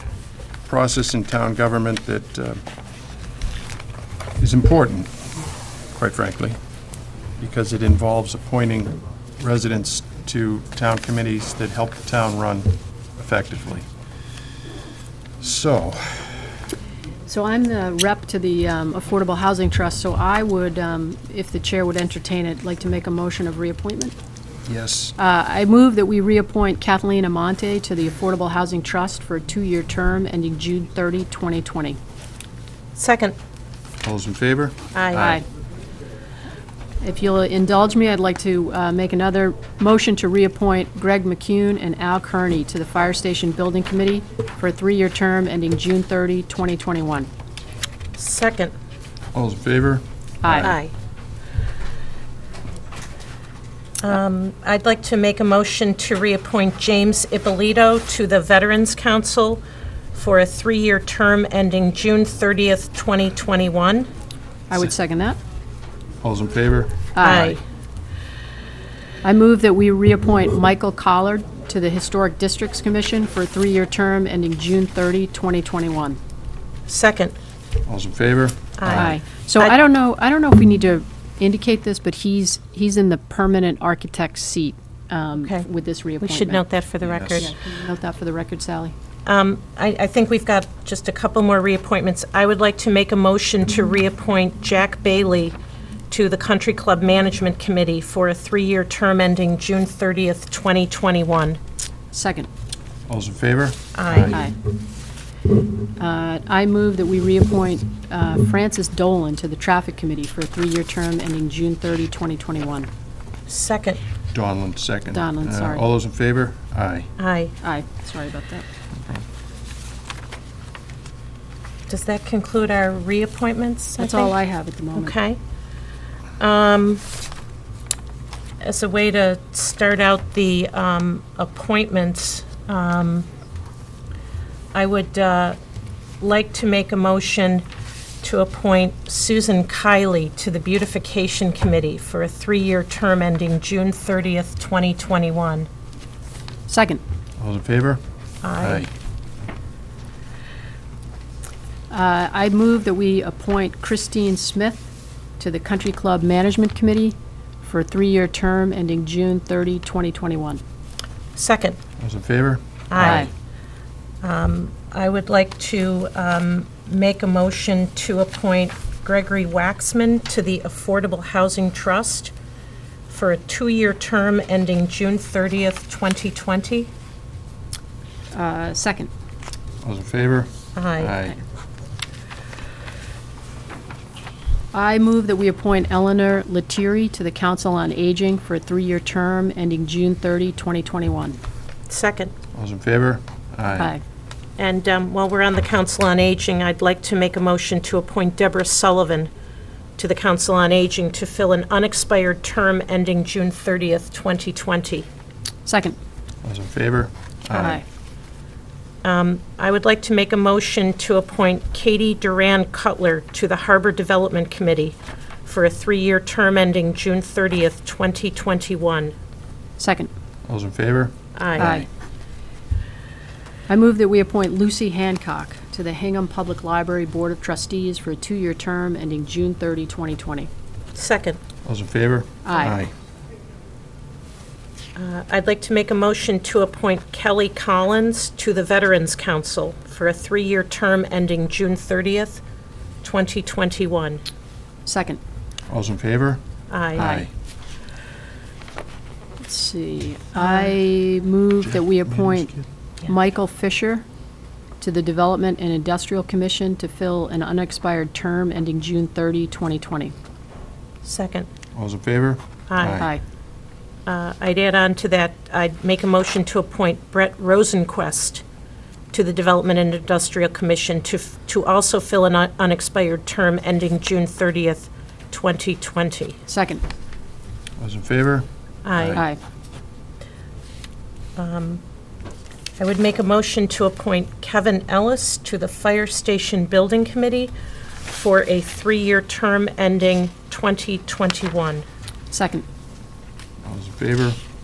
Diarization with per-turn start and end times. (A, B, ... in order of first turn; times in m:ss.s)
0:00.7-0:02.6 A
0:04.4-0:05.1 A
0:06.0-0:06.6 A
0:07.4-0:13.9 A
0:15.4-0:16.5 A
0:17.3-0:24.2 B
0:24.7-0:25.2 A
0:25.2-0:32.0 B
0:33.0-0:33.4 C
0:34.0-0:35.4 A
0:34.9-0:35.4 C
0:35.2-0:35.4 B
0:37.0-0:47.3 B
0:48.2-0:48.7 C
0:49.3-0:50.7 A
0:50.4-0:50.8 B
0:50.6-0:50.9 C
0:54.0-0:59.6 C
1:00.2-1:04.1 C
1:04.7-1:05.4 B
1:06.2-1:07.6 A
1:07.2-1:07.6 B
1:07.2-1:07.6 C
1:09.2-1:16.2 B
1:16.9-1:17.4 C
1:17.9-1:19.2 A
1:18.8-1:19.8 C
1:18.9-1:26.6 B
1:25.4-1:25.6 C
1:26.2-1:27.5 C
1:27.0-1:27.5 A
1:27.4-1:28.9 B
1:29.3-1:35.6 C
1:36.1-1:41.6 C
1:42.1-1:42.5 B
1:43.1-1:44.4 A
1:44.0-1:44.4 C
1:44.3-1:44.6 B
1:46.0-1:52.9 B
1:53.5-1:54.0 C
1:54.3-1:57.1 A
1:55.1-1:55.9 B
1:57.2-1:57.6 C
1:57.6-1:58.6 B
2:01.9-2:04.4 C
2:04.0-2:05.1 B
2:05.0-2:05.4 C
2:06.4-2:07.0 C
2:08.6-2:13.3 C
2:14.7-2:15.6 C
2:16.2-2:17.6 C
2:18.2-2:25.7 C
2:26.7-2:27.0 B
2:27.4-2:28.0 A
2:28.4-2:28.9 C
2:28.6-2:28.9 A
2:31.9-2:34.9 B
2:35.4-2:40.6 B
2:41.4-2:41.8 C
2:42.0-2:43.3 A
2:42.9-2:43.3 C
2:43.0-2:43.3 B
2:44.2-2:52.3 C
2:53.1-2:56.9 C
2:58.3-2:59.1 B
2:59.8-3:01.4 A
3:00.8-3:01.2 C
3:04.7-3:11.4 B
3:11.9-3:12.3 C
3:12.5-3:13.9 A
3:14.6-3:19.3 C
3:20.0-3:25.1 C
3:25.7-3:26.0 B
3:26.4-3:27.8 A
3:27.5-3:27.8 B
3:29.0-3:39.1 C
3:39.8-3:40.1 B
3:40.5-3:41.9 A
3:41.4-3:41.8 C
3:41.6-3:41.9 B
3:43.7-3:50.5 B
3:51.0-3:51.4 C
3:51.6-3:52.9 A
3:52.4-3:52.8 B
3:55.0-4:02.4 C
4:03.0-4:04.2 C
4:04.9-4:05.2 B
4:05.7-4:06.4 A
4:06.7-4:07.2 C
4:07.0-4:07.3 A
4:07.0-4:07.3 B
4:09.4-4:14.0 B
4:10.4-4:10.8 C
4:11.7-4:12.6 A
4:14.8-4:20.1 B
4:21.0-4:21.5 C
4:21.7-4:23.1 A
4:22.7-4:23.1 C
4:24.1-4:28.4 C
4:29.1-4:36.4 C
4:36.5-4:36.8 B
4:37.8-4:39.2 A
4:38.8-4:39.2 C
4:41.4-4:41.8 C
4:42.8-4:47.5 C
4:48.1-4:51.8 C
4:52.3-4:52.6 B
4:53.6-4:54.4 A